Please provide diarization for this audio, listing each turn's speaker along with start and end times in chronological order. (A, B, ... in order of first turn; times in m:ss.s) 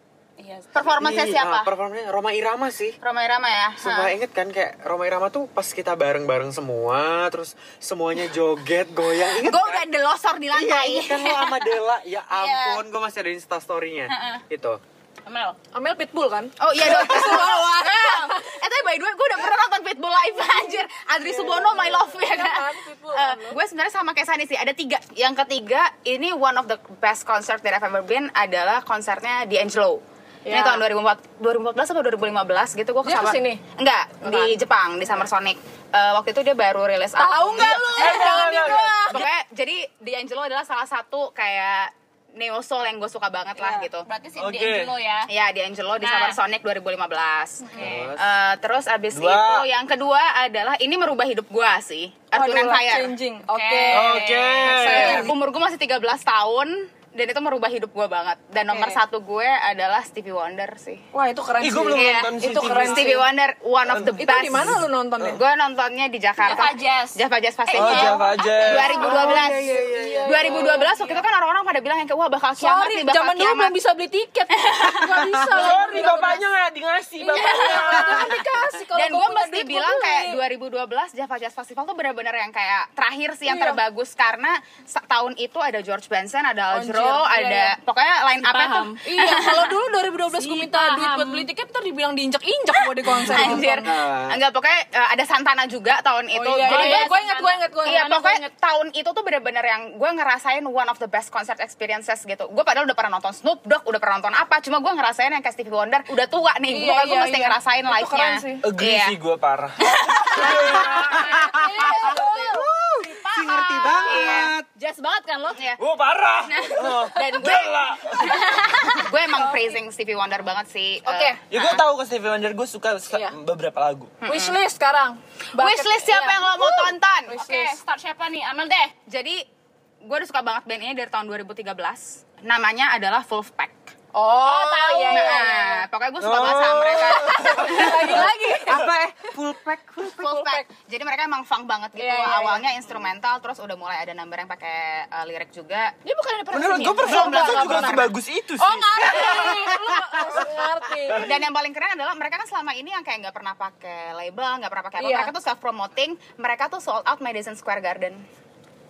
0:00.4-0:00.8 A
0:00.7-0:01.7 B
0:00.9-0:03.0 C
0:03.0-0:04.1 B
0:03.8-0:09.8 C
0:09.3-0:11.7 B
0:10.5-0:14.8 C
0:12.3-0:12.8 B
0:14.1-0:14.4 B
0:15.2-0:15.6 A
0:15.7-0:18.4 D
0:16.6-0:44.0 B
0:16.8-0:17.7 C
0:21.2-0:23.6 D
0:30.4-0:30.8 D
0:33.0-0:33.6 D
0:34.2-0:34.6 D
0:37.2-0:39.2 D
0:37.5-0:39.1 E
0:43.6-0:45.3 A
0:44.4-0:44.9 E
0:45.3-0:53.1 B
0:46.0-0:46.4 A
0:47.8-0:48.2 C
0:47.8-0:48.1 A
0:49.1-0:49.6 E
0:52.3-0:55.4 D
0:53.5-0:55.3 A
0:53.9-0:55.3 E
0:54.2-1:01.0 B
0:58.7-0:59.0 D
1:01.1-1:03.2 D
1:01.6-1:03.2 E
1:01.9-1:13.7 B
1:03.9-1:05.4 E
1:04.2-1:05.4 D
1:06.4-1:09.3 A
1:07.7-1:10.2 E
1:08.8-1:11.2 D
1:09.8-1:10.7 C
1:12.6-1:16.4 D
1:14.6-1:15.8 B
1:15.5-1:18.3 E
1:17.2-1:20.4 D
1:17.8-1:18.2 B
1:18.9-1:29.7 B
1:23.4-1:23.8 D
1:26.7-1:27.7 D
1:28.4-1:29.4 A
1:29.0-1:33.9 D
1:30.3-1:31.5 A
1:33.2-1:37.1 B
1:33.9-1:34.4 C
1:36.3-1:38.4 D
1:36.6-1:38.2 A
1:37.8-1:49.1 B
1:46.7-1:48.6 D
1:48.6-1:51.4 E
1:50.0-1:51.2 B
1:50.4-1:52.6 D
1:50.6-1:55.6 A
1:52.0-1:53.1 E
1:53.3-1:54.6 C
1:54.0-1:54.5 B
1:55.5-1:55.8 B
1:55.8-1:58.4 E
1:56.5-1:57.8 B
1:57.3-1:57.5 A
1:58.2-1:59.1 A
1:58.9-2:01.8 B
1:59.3-1:59.7 D
2:01.0-2:01.4 D
2:01.5-2:04.1 E
2:04.2-2:04.6 B
2:04.2-2:06.7 D
2:05.5-2:07.4 B
2:06.5-2:08.9 A
2:07.3-2:07.8 D
2:09.1-2:09.4 B
2:10.0-2:13.9 B
2:14.1-2:15.8 D
2:14.4-2:15.6 A
2:15.1-2:19.4 B
2:16.2-2:19.6 E
2:17.0-2:18.9 D
2:19.9-2:25.9 B
2:20.1-2:20.6 D
2:22.0-2:22.6 D
2:26.0-2:27.3 A
2:26.5-2:29.5 E
2:26.8-2:28.1 B
2:27.0-2:28.0 D
2:28.6-2:31.4 D
2:31.1-2:38.2 B
2:35.0-2:35.3 D